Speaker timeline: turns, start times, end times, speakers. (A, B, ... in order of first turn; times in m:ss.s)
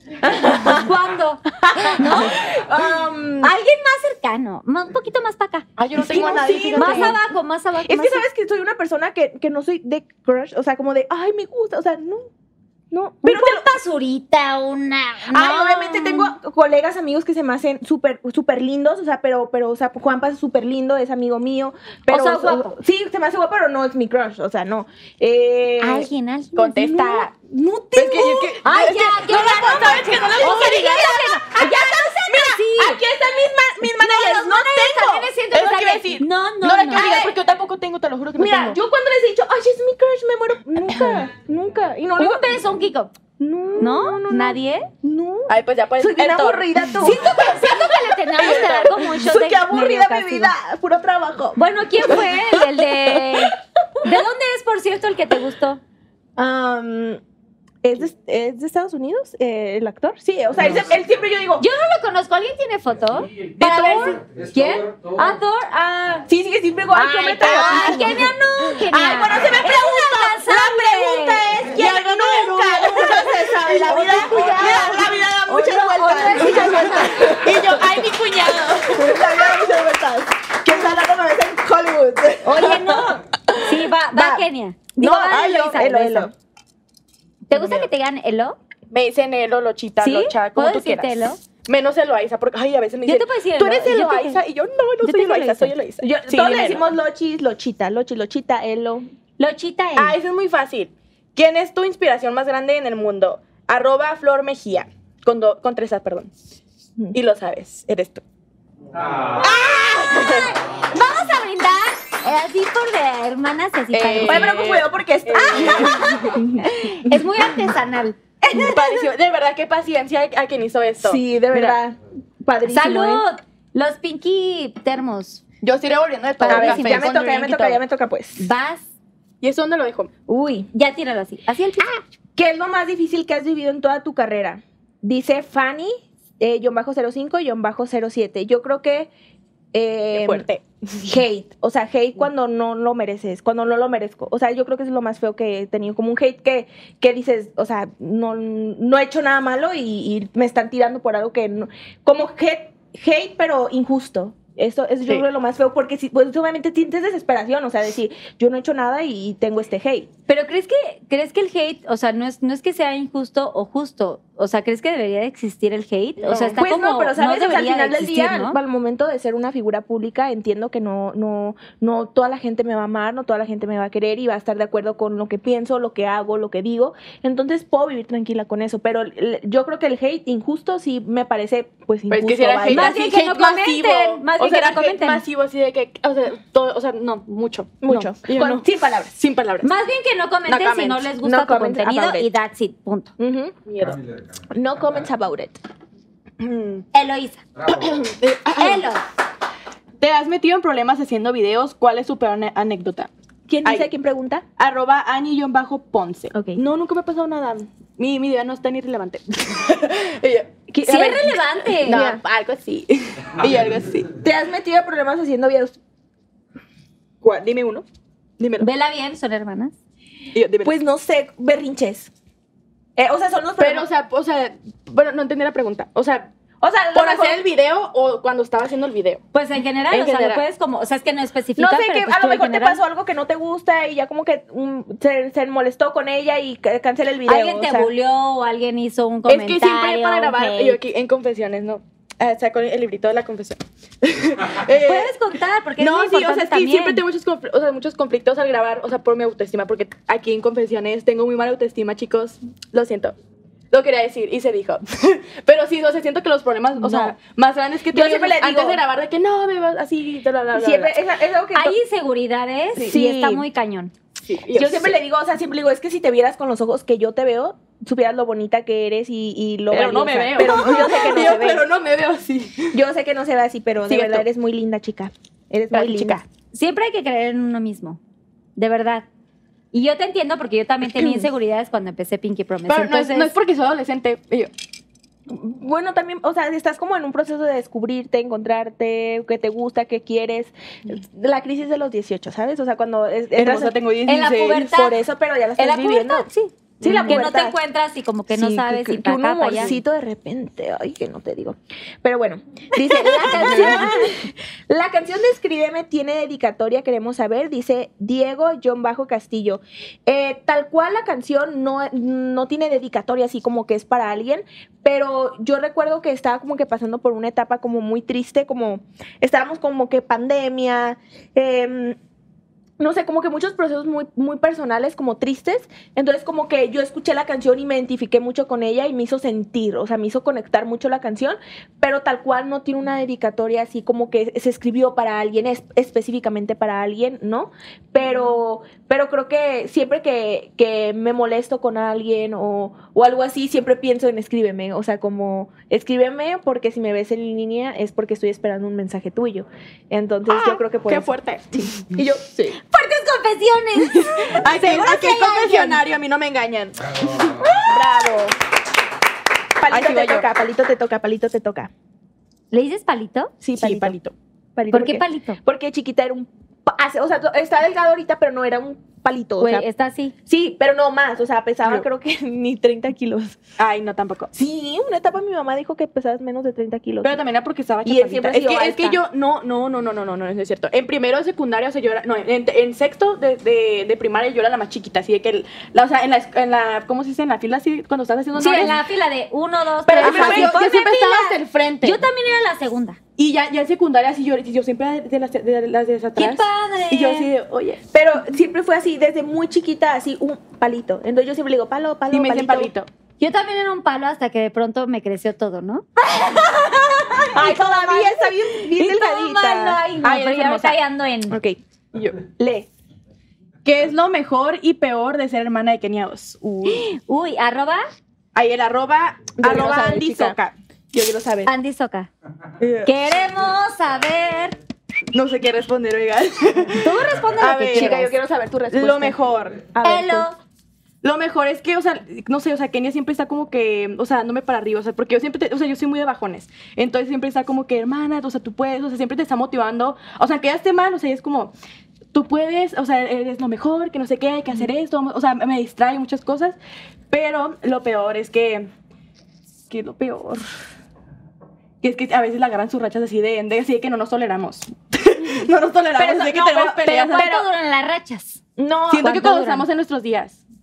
0:00.2-0:00.9 A
0:00.4-0:02.5 B
0:01.7-0:03.5 A
0:03.4-0:08.2 B
0:05.8-0:07.2 C
0:06.0-0:07.2 A
0:07.8-0:12.3 A
0:12.9-0:13.7 A
0:13.2-0:16.3 B
0:15.3-0:26.1 A
0:22.1-0:22.8 B
0:25.8-0:27.3 B
0:26.6-0:27.3 C
0:27.5-0:28.5 A
0:28.0-0:31.3 C
0:28.0-0:33.0 B
0:29.4-0:35.3 A
0:34.0-0:37.1 B
0:35.5-0:38.8 C
0:36.9-0:37.4 A
0:38.4-0:42.6 A
0:41.0-0:41.2 C
0:42.2-0:43.1 B
0:43.4-0:47.2 A
0:43.8-0:44.9 B
0:45.5-0:47.2 C
0:47.0-0:50.5 B
0:48.4-0:49.2 C
0:48.4-0:52.2 A
0:51.6-0:55.8 B
0:56.4-0:57.2 A
0:57.8-1:01.7 A
1:01.6-1:06.3 B
1:03.4-1:05.4 D
1:03.6-1:04.2 C
1:06.3-1:08.3 A
1:06.9-1:11.8 B
1:07.5-1:08.1 C
1:08.9-1:18.1 A
1:11.7-1:15.0 C
1:13.9-1:17.4 B
1:16.3-1:19.6 C
1:18.8-1:23.6 A
1:22.4-1:26.3 B
1:24.1-1:24.5 A
1:25.0-1:26.3 A
1:27.5-1:28.6 B
1:27.5-1:27.9 C
1:28.9-1:36.8 C
1:30.0-1:31.4 B
1:33.1-1:34.4 B
1:35.0-1:35.8 B
1:36.0-1:39.1 A
1:39.4-1:40.2 B
1:40.0-1:46.3 C
1:47.1-1:48.2 C
1:49.0-1:49.5 D
1:49.4-1:54.6 B
1:50.0-1:50.5 C
1:53.9-1:56.6 C
1:54.2-1:56.9 A
1:55.5-1:58.2 B
1:58.4-1:59.1 A
1:58.5-2:01.8 C
2:01.0-2:03.2 A
2:02.7-2:05.4 B
2:05.6-2:07.8 C
2:06.4-2:07.2 B
2:06.5-2:08.5 A
2:08.4-2:08.9 B
2:09.4-2:10.1 C
2:10.3-2:10.7 A
2:10.7-2:11.9 B
2:11.9-2:19.1 A
2:19.7-2:20.5 A
2:20.1-2:21.0 C
2:21.0-2:40.1 A
2:40.3-2:48.6 B
2:46.2-3:02.9 A
2:46.3-2:46.6 C
3:02.1-3:09.7 C
3:02.7-3:05.2 B
3:07.8-3:09.1 A
3:09.6-3:13.1 B
3:10.5-3:11.1 C
3:11.2-3:12.3 A
3:13.2-3:13.6 A
3:13.7-3:14.0 C
3:13.8-3:15.0 D
3:14.5-3:15.6 A
3:16.4-3:16.8 C
3:16.9-3:17.4 B
3:17.6-3:18.1 D
3:17.7-3:18.9 C
3:18.6-3:19.0 B
3:20.0-3:23.1 C
3:23.5-3:24.4 A
3:23.6-3:23.9 C
3:24.6-3:30.6 C
3:26.3-3:26.6 A
3:30.7-3:32.2 A
3:30.8-3:32.1 B
3:31.8-3:34.1 C
3:34.2-3:35.8 A
3:37.2-3:37.8 C
3:38.4-3:38.7 C
3:38.6-3:39.7 B
3:40.3-3:40.7 C
3:40.6-3:42.1 A
3:43.0-3:43.9 A
3:43.6-3:46.3 C
3:46.6-3:47.5 A
3:46.9-3:49.2 C
3:49.3-3:52.8 B
3:49.9-3:50.4 C
3:51.6-3:57.9 A
3:57.3-4:00.8 B
3:59.3-4:05.2 C
4:04.7-4:07.0 B
4:05.8-4:13.1 C
4:13.7-4:20.9 C
4:16.8-4:17.1 A
4:17.9-4:18.8 A
4:20.5-4:21.8 A
4:21.5-4:23.9 B
4:22.8-4:23.4 A
4:24.3-4:25.0 C
4:24.6-4:31.7 A
4:29.7-4:32.8 C
4:32.7-4:36.2 A
4:33.9-4:34.3 C
4:35.7-4:36.2 C
4:36.5-4:38.0 B
4:38.6-4:39.1 B
4:39.7-4:43.3 B
4:42.7-4:44.5 C
4:45.3-4:53.8 A
4:53.4-4:54.7 C
4:54.1-4:54.9 B
4:54.6-4:56.3 A
4:55.6-4:59.7 B
4:56.8-4:57.6 A
4:56.8-4:57.2 C
4:58.3-5:22.0 A
5:02.8-5:04.1 B
5:03.3-5:03.9 C
5:22.8-5:52.6 A
5:50.3-5:51.9 C
5:52.7-5:55.8 B
5:53.8-5:57.8 C
5:56.8-5:57.7 D
5:57.7-5:58.4 A
5:59.6-6:01.7 A
5:59.7-6:00.3 C
6:02.5-6:03.3 B
6:03.4-6:04.0 A
6:03.5-6:04.1 C
6:04.6-6:09.7 A
6:04.7-6:05.4 B
6:09.4-6:10.1 B
6:10.3-6:13.4 A
6:13.6-6:14.3 C
6:14.3-6:17.2 A
6:17.0-6:28.8 C
6:17.8-6:19.0 A
6:28.4-6:33.0 B
6:29.8-6:30.6 A
6:30.0-6:32.0 C
6:33.2-6:37.8 C
6:36.2-6:37.3 B
6:37.9-6:42.7 A
6:42.1-6:42.9 C
6:43.2-6:45.9 B
6:46.1-6:46.5 A
6:46.9-6:51.4 B
6:47.3-6:49.8 A
6:50.0-6:50.8 C
6:51.3-6:51.6 A
6:51.9-6:52.2 C
6:52.4-6:52.7 A
6:53.6-6:56.9 C
6:56.7-6:57.8 B
6:58.3-7:00.6 C
6:59.4-7:00.4 A
7:00.9-7:01.5 A
7:01.5-7:02.1 B
7:02.6-7:02.9 C
7:02.8-7:04.6 B
7:05.1-7:08.1 C
7:06.8-7:08.1 B
7:07.4-7:09.2 A
7:08.7-7:09.7 C
7:09.7-7:10.3 A
7:09.8-7:10.4 B
7:11.0-7:21.5 C
7:22.1-7:26.6 C
7:27.1-7:28.7 C
7:29.7-7:30.4 C
7:31.8-7:37.3 C
7:36.0-7:37.5 A
7:36.9-7:38.4 B
7:38.6-7:39.2 A
7:38.9-7:40.4 C
7:39.0-7:39.6 B